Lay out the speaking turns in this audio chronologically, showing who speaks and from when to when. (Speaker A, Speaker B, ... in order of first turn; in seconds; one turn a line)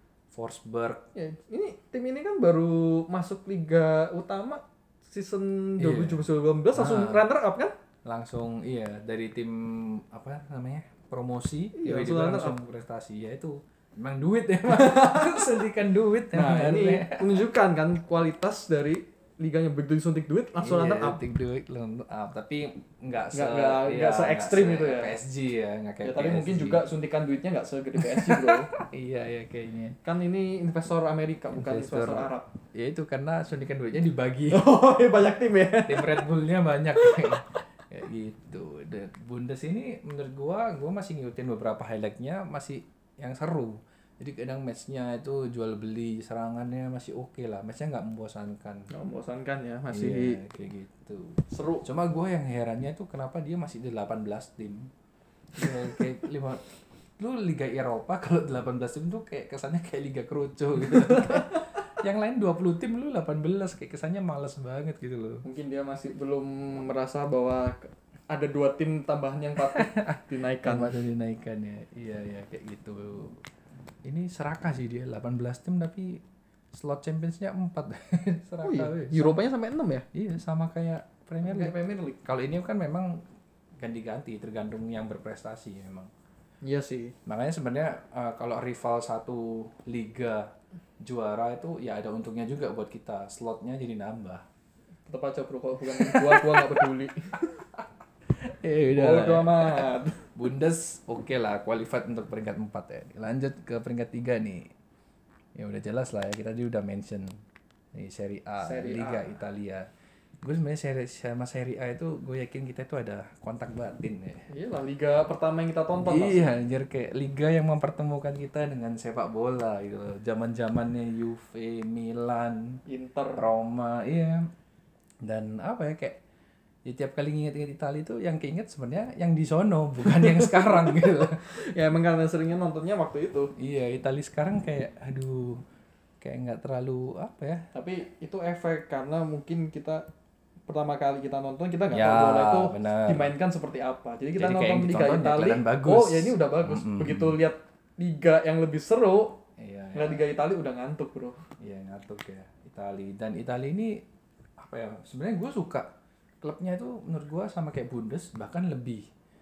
Speaker A: 0.3-1.1
Speaker B: 1.1-7.7
Speaker A: 5.8-7.3
Speaker A: 8.1-17.4
Speaker B: 11.8-12.6
Speaker B: 14.7-15.5
Speaker B: 16.3-21.2
Speaker A: 20.6-26.8
Speaker B: 23.3-25.2
Speaker B: 26.0-28.7
Speaker A: 28.0-30.0
Speaker B: 30.0-32.5
Speaker A: 31.6-34.7
Speaker B: 34.5-36.2
Speaker A: 35.9-48.9
Speaker B: 37.0-37.4
Speaker B: 48.9-50.4
Speaker A: 49.9-54.9
Speaker B: 51.5-51.9
Speaker A: 55.5-56.7
Speaker B: 55.6-56.0
Speaker A: 57.2-65.5
Speaker B: 60.9-61.6
Speaker B: 65.4-71.0
Speaker A: 69.7-73.4
Speaker A: 74.0-76.2
Speaker A: 76.7-79.4
Speaker B: 78.6-80.1
Speaker A: 80.1-83.2
Speaker B: 81.4-82.2
Speaker A: 83.8-86.1
Speaker B: 86.6-87.2
Speaker A: 87.3-94.4
Speaker B: 95.1-97.4
Speaker A: 95.9-96.8
Speaker A: 98.3-104.7
Speaker B: 98.9-100.3
Speaker A: 105.6-107.4
Speaker A: 108.0-109.9
Speaker B: 108.6-109.4
Speaker A: 110.4-114.5
Speaker B: 114.5-116.5
Speaker A: 116.0-122.8
Speaker B: 122.9-123.4
Speaker A: 123.4-124.5
Speaker A: 125.2-126.2
Speaker A: 126.9-131.6
Speaker B: 130.0-133.5
Speaker A: 133.6-135.6
Speaker A: 136.2-137.7
Speaker B: 137.7-140.1
Speaker B: 140.7-149.4
Speaker A: 141.9-143.3
Speaker A: 144.4-147.4
Speaker A: 149.6-150.2
Speaker B: 149.9-151.4
Speaker A: 151.6-154.0
Speaker A: 154.6-155.9
Speaker A: 156.4-159.1